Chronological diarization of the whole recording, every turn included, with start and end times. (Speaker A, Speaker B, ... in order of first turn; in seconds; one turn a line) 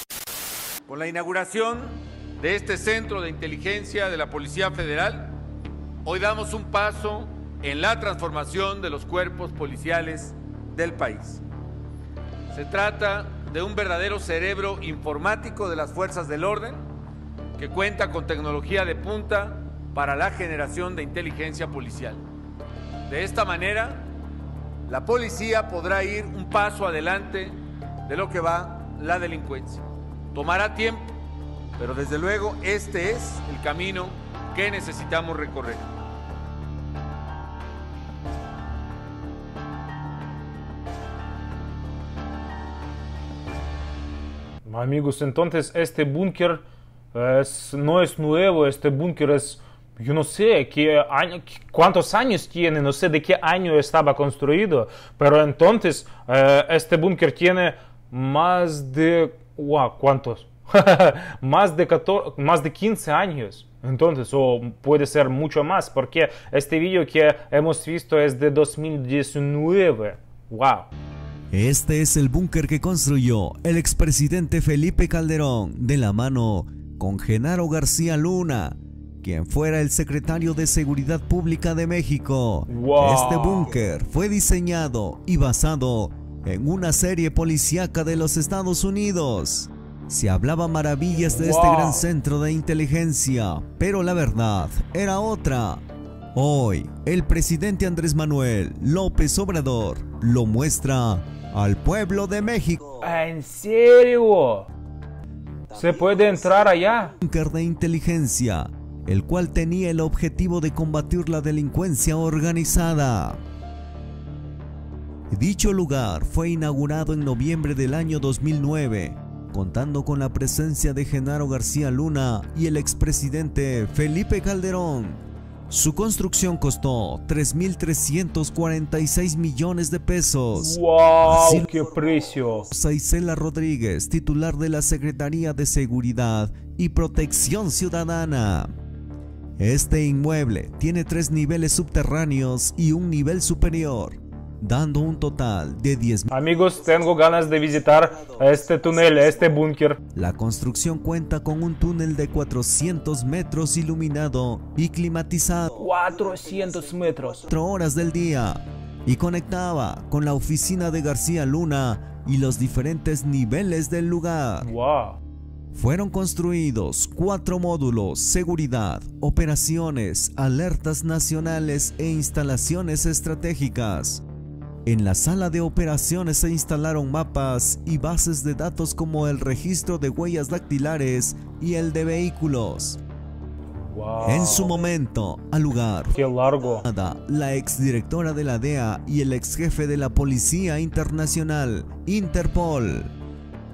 Speaker A: 0.8-5.4
Speaker A: 6.0-11.4
Speaker A: 12.5-16.9
Speaker A: 17.6-22.2
Speaker A: 23.1-24.1
Speaker A: 24.9-31.2
Speaker A: 31.8-35.9
Speaker B: 44.6-46.6
Speaker B: 47.1-70.9
Speaker C: 71.5-95.8
Speaker B: 82.7-83.7
Speaker B: 91.3-92.0
Speaker C: 96.3-103.0
Speaker B: 103.0-104.7
Speaker B: 105.7-107.2
Speaker C: 107.2-113.4
Speaker C: 115.3-131.7
Speaker B: 130.5-132.7
Speaker C: 132.7-138.7
Speaker C: 139.6-146.3
Speaker B: 146.3-150.0
Speaker C: 150.1-155.9
Speaker B: 155.8-157.5
Speaker C: 157.4-164.7
Speaker B: 164.6-165.2
Speaker C: 165.7-174.2
Speaker C: 174.8-183.0
Speaker B: 183.8-184.8
Speaker C: 184.2-186.1
Speaker B: 186.1-186.8
Speaker C: 186.8-193.1